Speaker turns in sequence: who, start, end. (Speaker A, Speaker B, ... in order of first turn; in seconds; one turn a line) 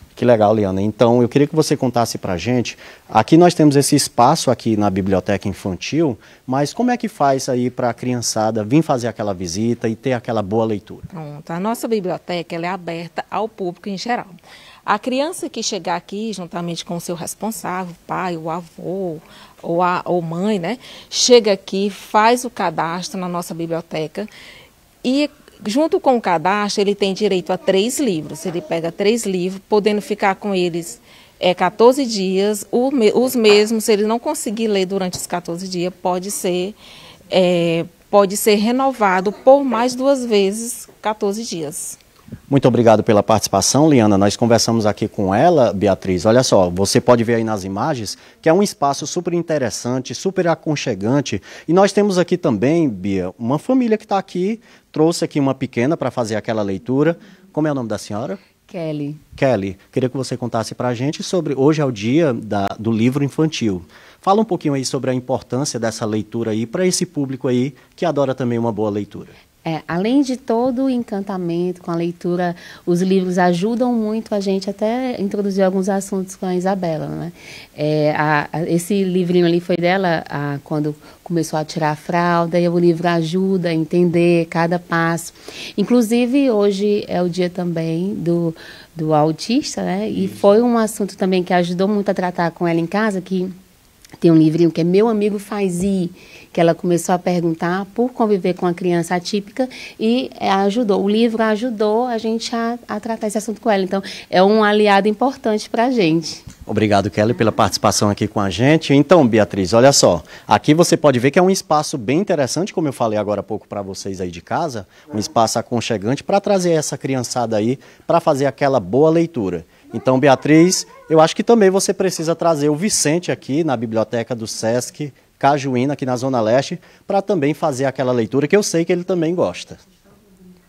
Speaker A: 0.2-11.1
Speaker B: 11.1-24.3
Speaker B: 25.0-36.8
Speaker B: 37.3-42.0
Speaker A: 42.5-58.4
Speaker C: 58.7-59.2
Speaker A: 59.4-69.3
Speaker C: 69.7-93.5
Speaker C: 94.2-106.4
Speaker A: 106.7-129.8